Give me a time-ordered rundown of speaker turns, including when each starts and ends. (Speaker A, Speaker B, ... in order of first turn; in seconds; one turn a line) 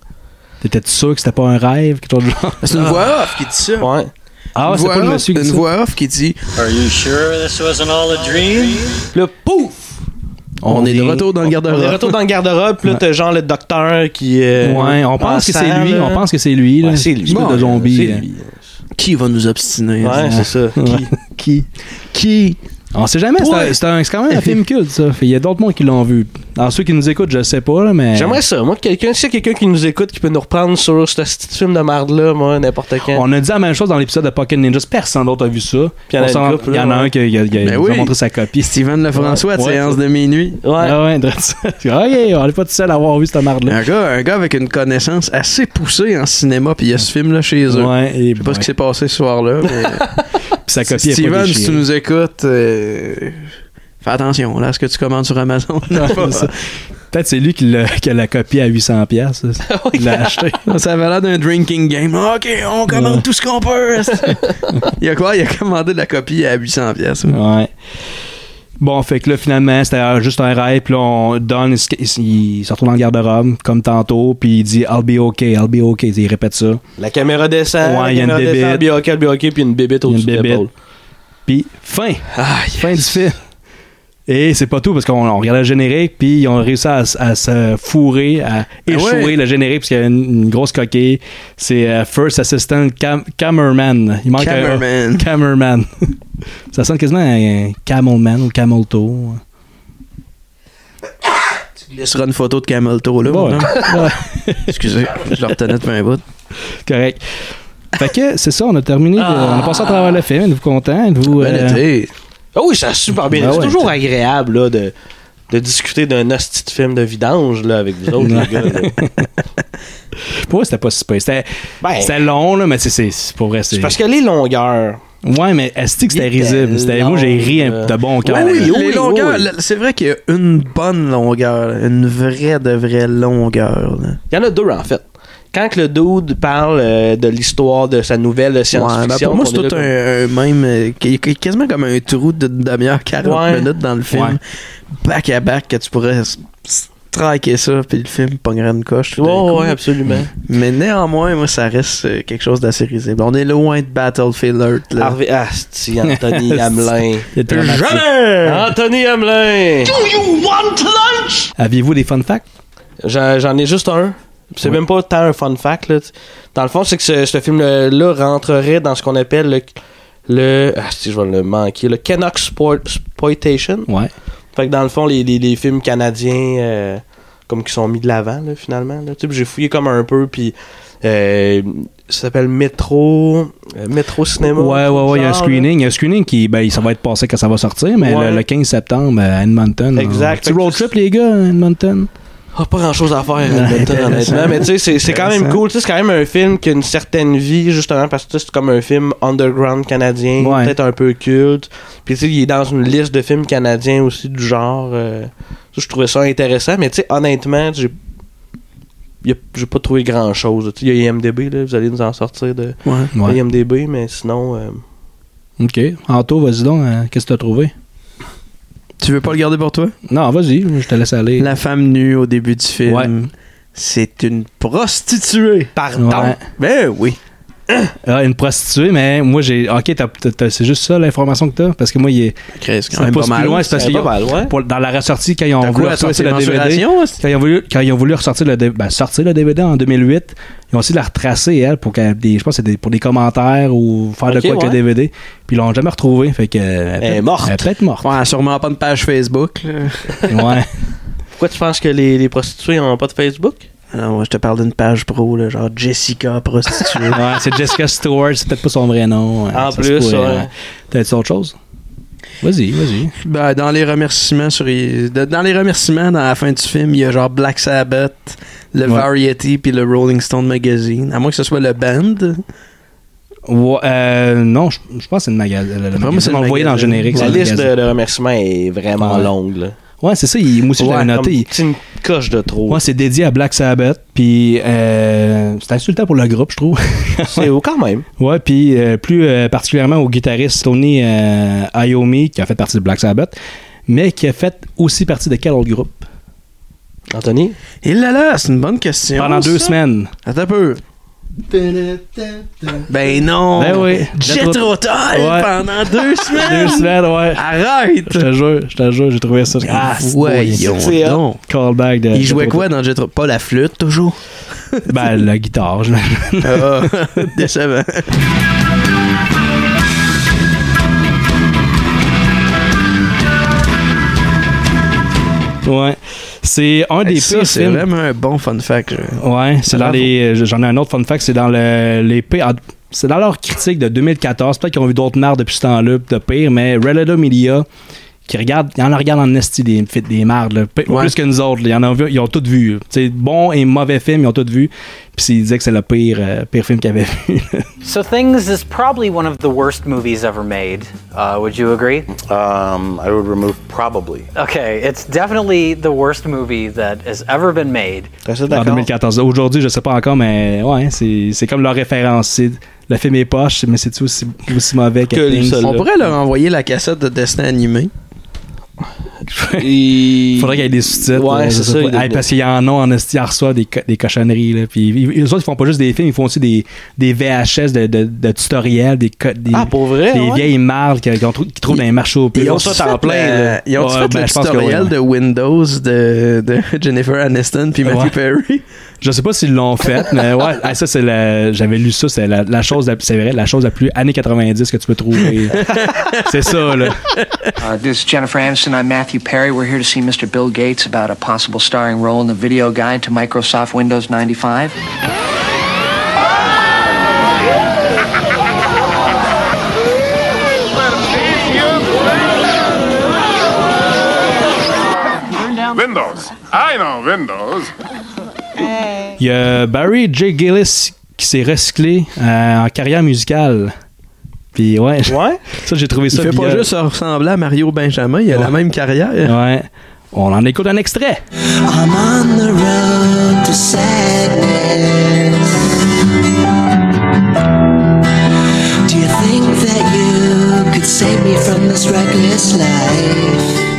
Speaker A: 0.6-2.9
Speaker B: 2.6-3.9
Speaker C: 3.8-4.1
Speaker A: 4.6-5.6
Speaker B: 4.6-6.4
Speaker D: 6.6-9.1
Speaker C: 9.1-10.0
Speaker A: 10.6-11.3
Speaker B: 10.7-12.1
Speaker C: 11.6-16.2
Speaker A: 14.6-18.2
Speaker C: 16.8-18.6
Speaker B: 17.3-17.7
Speaker B: 18.9-20.4
Speaker C: 20.0-21.1
Speaker A: 20.1-21.7
Speaker B: 22.1-22.6
Speaker A: 22.9-28.4
Speaker C: 23.4-23.7
Speaker B: 24.3-24.6
Speaker C: 28.1-33.2
Speaker A: 33.1-40.0
Speaker C: 36.1-37.1
Speaker B: 37.6-40.6
Speaker C: 40.6-41.0
Speaker A: 40.8-43.8
Speaker B: 43.7-50.1
Speaker A: 47.7-48.7
Speaker A: 50.7-51.8
Speaker B: 50.8-53.5
Speaker B: 54.0-56.5
Speaker A: 55.9-56.5
Speaker A: 57.1-60.6
Speaker C: 59.7-60.5
Speaker B: 60.6-64.4
Speaker A: 62.9-63.2
Speaker B: 65.0-67.4
Speaker A: 67.3-67.7
Speaker A: 68.8-76.8
Speaker C: 77.0-80.7
Speaker A: 77.8-78.8
Speaker A: 80.1-80.7
Speaker A: 81.5-83.4
Speaker B: 82.4-83.1
Speaker A: 84.3-95.9
Speaker B: 88.9-89.4
Speaker B: 94.4-95.3
Speaker A: 96.7-99.4
Speaker B: 101.9-103.9
Speaker A: 103.3-104.7
Speaker B: 104.7-106.2
Speaker A: 106.9-107.2
Speaker A: 108.0-111.8
Speaker C: 109.2-110.2
Speaker B: 111.3-112.1
Speaker C: 112.5-114.9
Speaker A: 113.3-113.9
Speaker C: 115.5-119.0
Speaker A: 118.2-119.3
Speaker A: 120.5-124.0
Speaker C: 121.8-122.1
Speaker C: 123.7-125.0
Speaker A: 125.2-128.7
Speaker C: 126.1-129.5
Speaker B: 128.2-134.2
Speaker C: 134.3-139.9
Speaker B: 138.7-144.4
Speaker C: 143.2-143.7
Speaker A: 144.1-144.4
Speaker B: 145.0-149.8
Speaker C: 149.2-150.3
Speaker B: 150.4-155.2
Speaker C: 155.0-157.3
Speaker A: 156.1-158.3
Speaker B: 157.5-158.4
Speaker C: 158.4-159.9
Speaker B: 160.2-161.1
Speaker A: 161.6-162.4
Speaker C: 163.0-169.8
Speaker C: 170.3-173.9
Speaker C: 174.6-185.7
Speaker A: 184.5-192.1
Speaker C: 188.0-188.4
Speaker C: 190.0-190.9
Speaker C: 192.6-207.9
Speaker A: 193.5-194.7
Speaker B: 195.1-195.6
Speaker A: 200.4-200.7
Speaker C: 209.2-214.8
Speaker B: 212.8-213.1
Speaker A: 215.6-217.7
Speaker B: 219.0-219.9
Speaker A: 220.1-221.5
Speaker B: 221.4-225.7
Speaker C: 225.8-226.4
Speaker A: 226.0-226.4
Speaker B: 226.6-227.2
Speaker A: 228.1-232.3
Speaker B: 232.6-234.0
Speaker A: 232.9-248.1
Speaker C: 233.8-234.5
Speaker B: 235.6-237.2
Speaker C: 244.3-244.8
Speaker C: 247.0-247.6
Speaker B: 248.0-250.2
Speaker A: 250.3-250.7
Speaker C: 251.4-253.7
Speaker B: 253.9-257.2
Speaker A: 257.1-261.6
Speaker C: 259.5-260.5
Speaker A: 262.4-263.1
Speaker B: 263.2-272.4
Speaker A: 273.5-277.7
Speaker B: 276.0-277.4
Speaker C: 277.1-279.8
Speaker A: 279.0-279.3
Speaker A: 280.0-281.5
Speaker C: 280.8-282.8
Speaker A: 282.7-287.5
Speaker C: 287.3-288.1
Speaker A: 288.2-293.4
Speaker A: 293.9-296.1
Speaker C: 297.1-297.6
Speaker B: 297.8-300.8
Speaker A: 299.2-300.1
Speaker A: 301.5-302.9
Speaker B: 302.9-308.3
Speaker A: 303.6-305.6
Speaker A: 306.3-307.4
Speaker A: 308.1-310.6
Speaker B: 309.6-311.4
Speaker C: 310.6-311.2
Speaker A: 311.5-312.7
Speaker B: 312.1-314.2
Speaker A: 314.9-316.9
Speaker B: 316.4-318.1
Speaker A: 325.6-327.9
Speaker B: 327.1-330.1
Speaker A: 329.2-337.7
Speaker A: 338.3-347.7
Speaker B: 340.9-341.1
Speaker E: 347.8-352.1
Speaker F: 352.2-354.3
Speaker E: 354.4-358.1
Speaker C: 358.2-358.9
Speaker A: 358.5-365.6
Speaker C: 365.1-365.9
Speaker B: 365.6-367.9
Speaker A: 369.3-382.9
Speaker C: 369.6-372.2
Speaker C: 379.5-380.5
Speaker B: 381.7-388.6
Speaker C: 382.4-383.6
Speaker A: 383.8-384.9
Speaker A: 387.9-388.1
Speaker A: 389.0-397.0
Speaker B: 395.5-397.5
Speaker G: 397.6-404.8
Speaker A: 419.2-423.7
Speaker A: 424.5-426.7
Speaker C: 425.1-425.4
Speaker B: 426.1-429.3
Speaker A: 429.2-431.2
Speaker H: 431.7-435.4
Speaker H: 438.9-443.5